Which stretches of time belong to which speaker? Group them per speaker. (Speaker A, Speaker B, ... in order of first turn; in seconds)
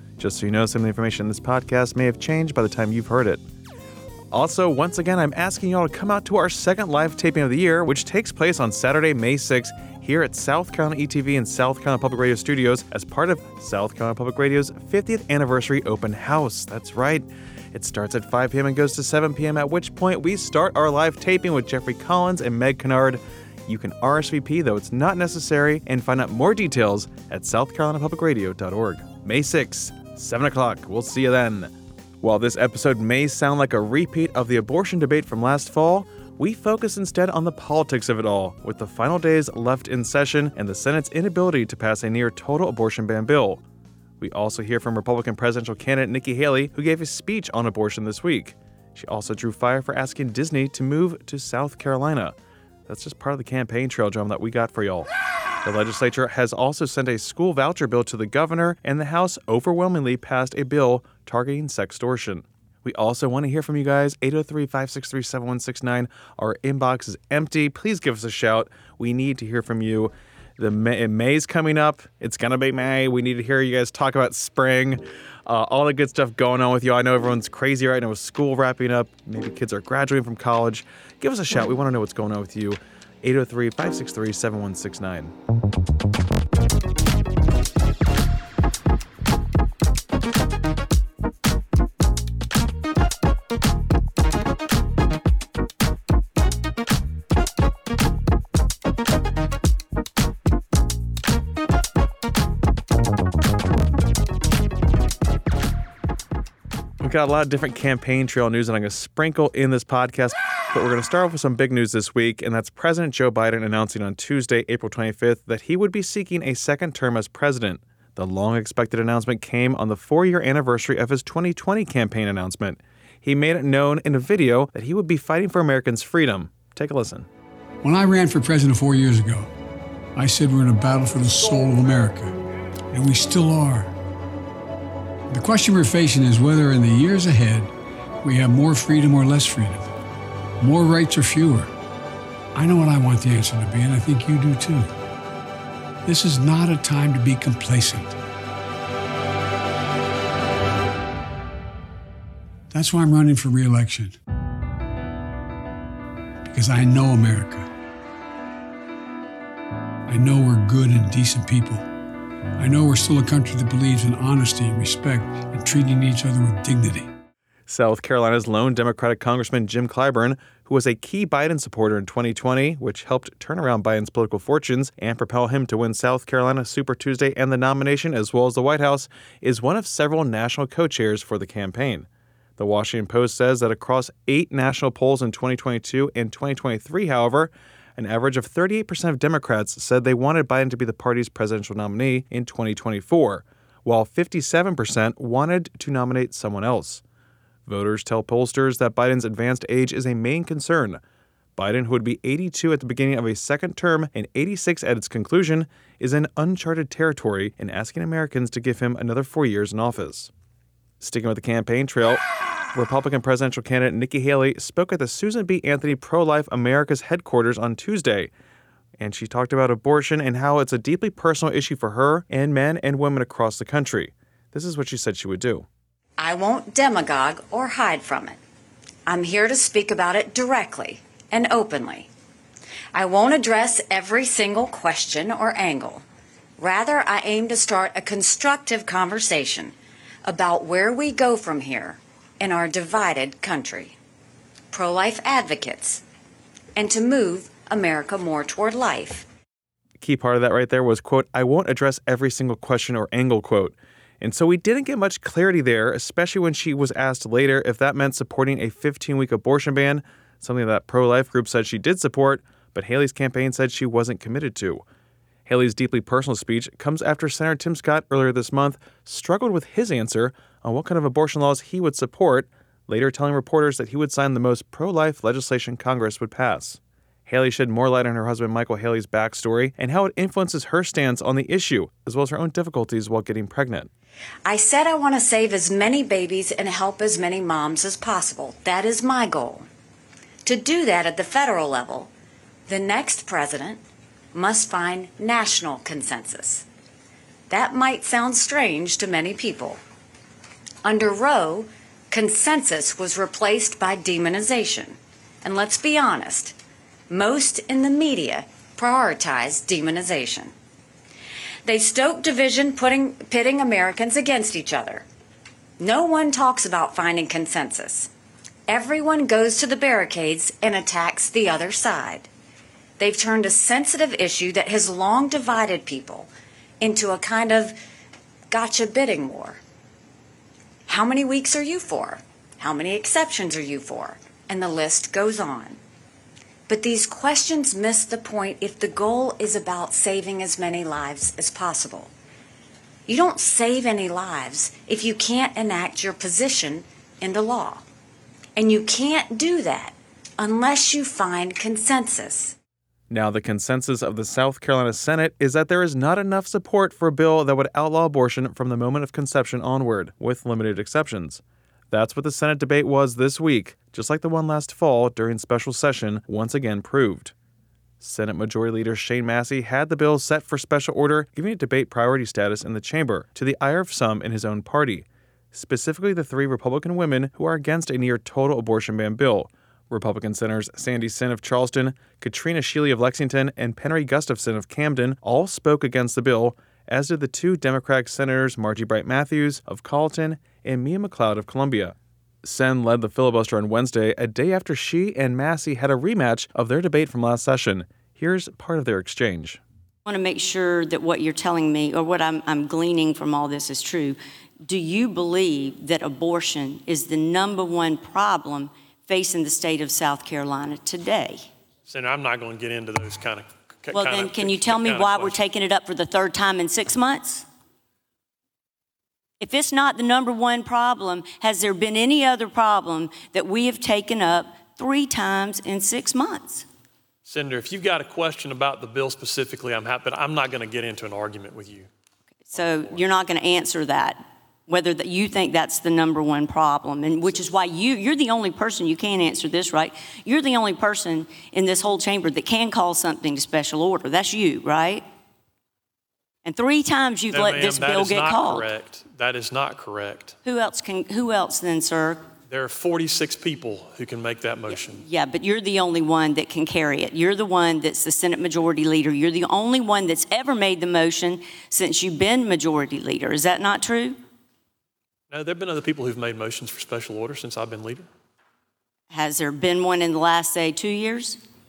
Speaker A: 0.2-3.4, 4.3-43.6, 44.2-52.3, 52.9-55.1, 55.6-85.3, 107.0-127.3, 167.7-197.0, 197.7-201.0, 201.6-210.3, 211.0-212.2, 212.7-218.3, 219.0-225.7, 250.0-264.8, 265.5-283.9, 353.1-367.3, 368.0-399.6
Speaker B: 127.8-129.5, 130.1-132.3, 132.9-133.9, 135.3-137.7, 138.2-139.9, 140.6-141.7, 142.5-144.9, 146.0-148.2, 152.7-154.2, 156.5-157.7, 160.1-161.8, 162.6-167.1
Speaker C: 226.2-228.4, 229.1-232.1, 232.9-236.0, 236.6-239.7, 240.2-243.9, 244.7-246.0, 246.8-249.2, 284.4-289.7, 290.4-292.1, 292.7-293.8, 294.3-296.6, 297.5-299.8, 300.8-306.5, 307.1-310.5, 311.6-315.0, 315.8-318.1, 318.7-322.3, 323.0-326.3, 326.8-327.8, 328.5-329.6, 330.9-335.8, 336.7-342.1, 343.1-347.8, 348.6-352.5
Speaker D: 400.1-411.4, 413.9-417.4, 419.4-426.6, 432.5-445.0, 446.4-448.7, 450.4-452.2, 454.7-464.2, 469.1-471.4
Speaker E: 411.9-415.4, 427.2-431.9, 432.5-433.0, 447.3-450.3, 452.5-455.0, 465.3-468.1